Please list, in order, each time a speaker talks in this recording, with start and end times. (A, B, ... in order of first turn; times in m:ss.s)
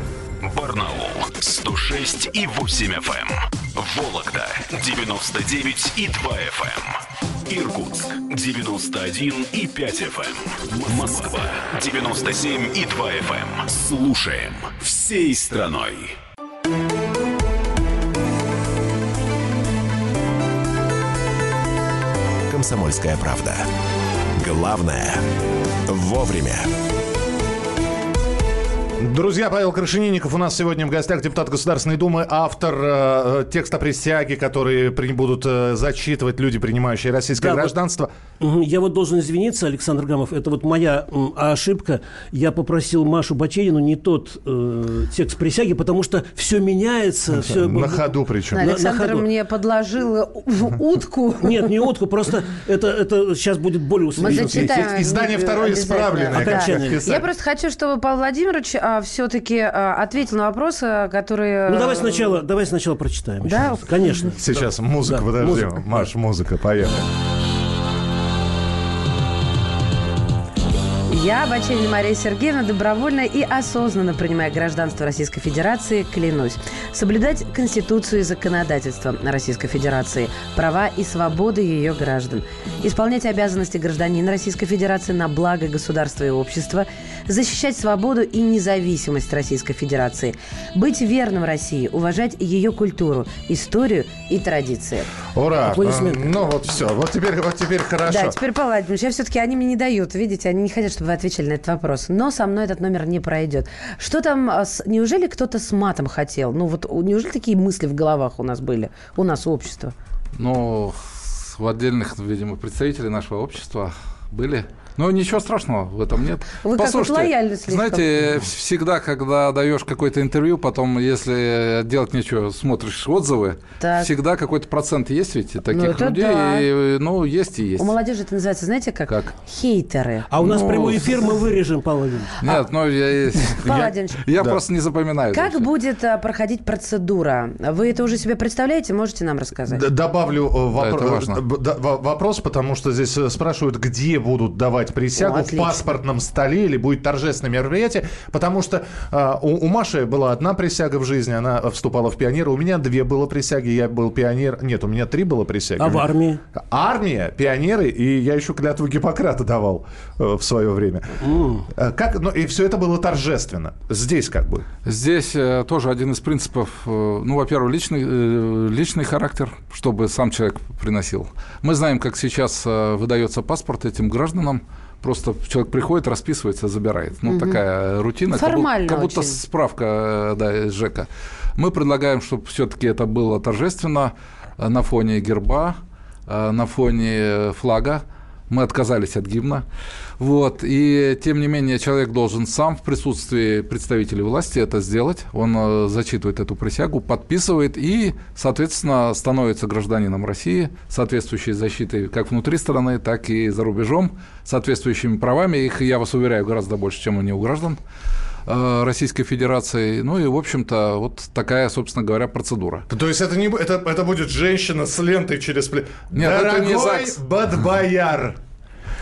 0:00.4-0:06.9 A
0:07.5-0:16.2 A
0:22.5-0:23.6 B
0:24.4-0:25.2 B
0:25.9-0:26.7 B
0:29.0-0:38.1 C
0:37.4-0:37.7 D
0:38.4-0:49.2 D
0:47.4-0:48.7 C
0:48.5-0:51.7 E
0:51.4-0:54.8 D
0:54.2-1:02.3 E
0:54.2-0:57.3 C
0:56.3-0:57.0 D
1:01.7-1:05.9 D
1:03.4-1:04.3 E
1:04.4-1:07.0 C
1:11.1-1:35.1 E
1:35.3-1:38.4 C
1:35.6-1:36.3 D
1:38.1-1:49.9 E
1:50.4-2:07.9 F
1:56.6-1:58.1 E
2:03.8-2:04.1 E
2:05.7-2:06.6 E
2:07.8-2:10.3 E
2:10.3-2:12.4 D
2:10.4-2:11.2 F
2:12.4-2:15.7 F
2:13.6-2:14.2 E
2:15.3-2:19.8 E
2:19.7-2:44.6 C
2:20.8-2:21.4 F
2:25.2-2:25.9 E
2:35.8-2:36.4 D
2:41.2-2:41.6 D
2:44.8-3:09.6 F
2:57.3-2:57.6 E
2:58.3-2:59.4 E
3:10.2-3:27.8 F
3:28.5-3:32.8 F
3:32.9-3:38.4 C
3:36.1-3:37.2 F